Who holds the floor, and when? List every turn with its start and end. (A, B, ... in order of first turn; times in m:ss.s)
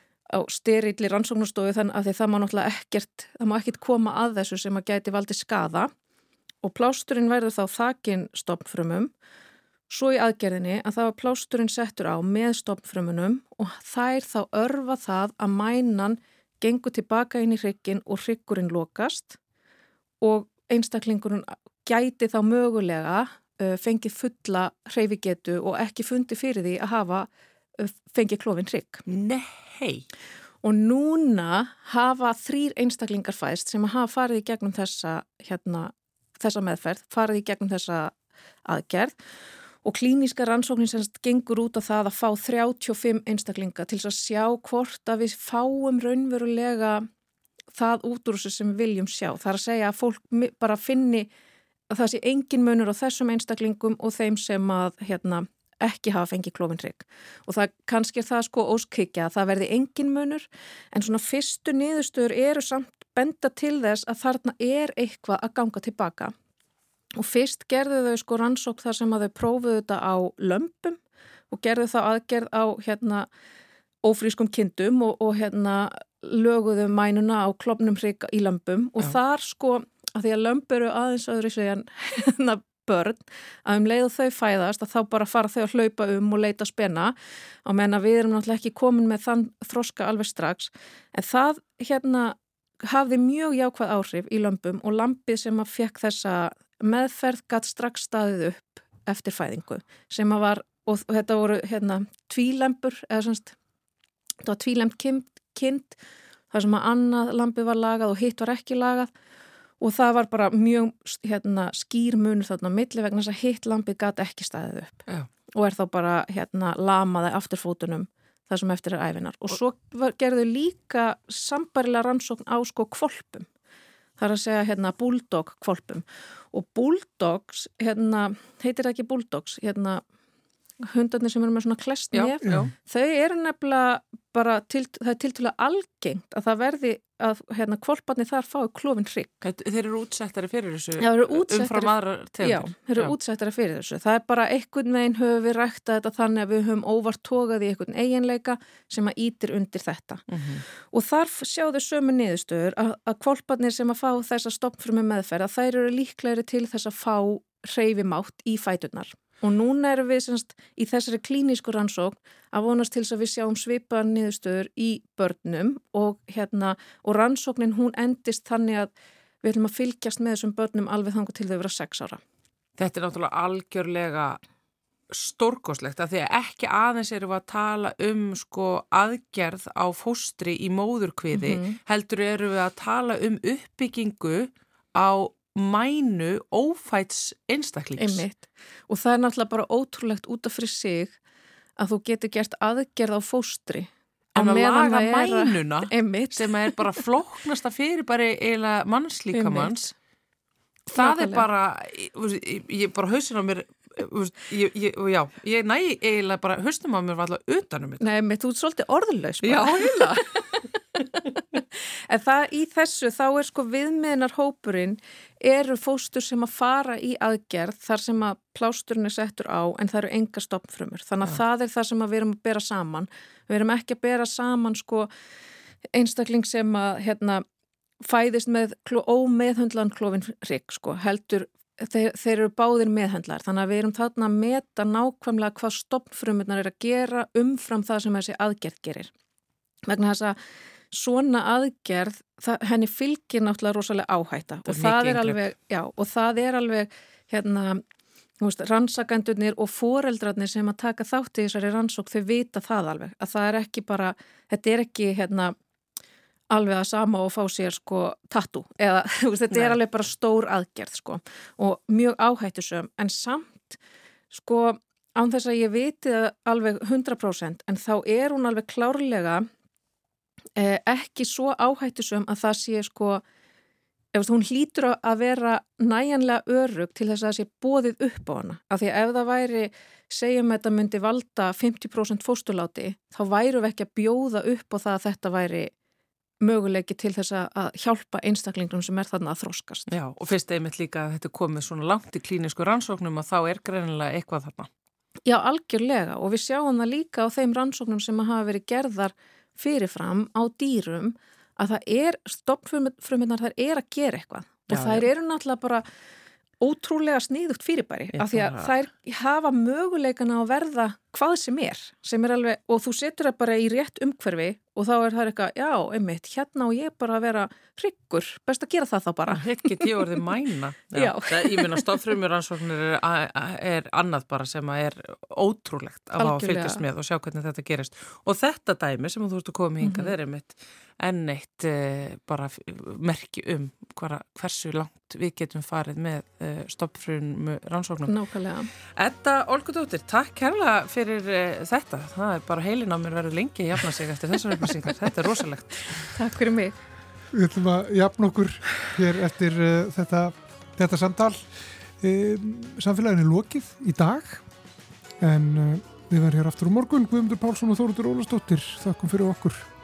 0:00.3-0:05.9 A
0:06.6-0:09.1 A
0:09.9-0:19.4 A
0:20.2-0:29.0 A
0:29.1-0:30.0 B
0:30.6-0:38.1 A
0:38.7-0:39.2 A
0:39.8-0:47.1 A
0:47.7-0:51.3 A
0:51.9-1:06.3 A
1:07.2-1:11.0 A
1:11.5-1:13.3 A
1:14.0-1:43.6 A
1:44.4-1:46.0 A
1:46.5-1:49.1 A
1:49.8-1:55.0 A
1:55.6-2:03.5 A
2:04.2-2:10.0 A
2:10.8-2:19.3 A
2:12.1-2:12.7 B
2:19.4-2:23.2 B
2:21.0-2:30.2 A
2:30.3-2:30.6 B
2:30.8-2:52.2 A
2:52.8-2:54.4 B
2:55.1-3:08.2 B
3:01.3-3:01.8 A
3:08.0-3:11.1 A
3:11.8-3:17.0 A
3:14.3-3:19.9 B
3:19.3-3:19.9 A
3:20.9-3:21.4 A
3:20.9-3:28.1 B
3:28.0-3:45.1 A
3:29.4-3:30.2 B
3:45.9-3:47.4 A
3:48.0-3:59.1 A
3:59.9-4:00.4 A
4:00.9-4:07.8 A
4:04.6-4:05.5 B
4:08.4-4:15.5 A
4:16.5-4:23.8 A
4:19.5-4:19.8 B
4:24.3-4:29.5 A
4:30.6-4:33.2 A
4:34.1-4:45.7 A
4:46.4-4:49.8 A
4:49.9-4:54.7 B
4:55.2-5:05.9 A
5:04.7-5:05.1 B
5:06.6-5:20.2 A
5:08.1-5:08.7 B
5:19.3-5:38.2 B
5:20.9-5:22.0 A
5:26.2-5:26.8 A
5:29.8-5:30.1 A
5:38.1-5:38.7 A
5:39.0-5:45.8 B
5:45.9-5:46.8 A
5:47.3-5:51.4 C
5:52.0-5:54.4 C
5:55.2-5:59.6 C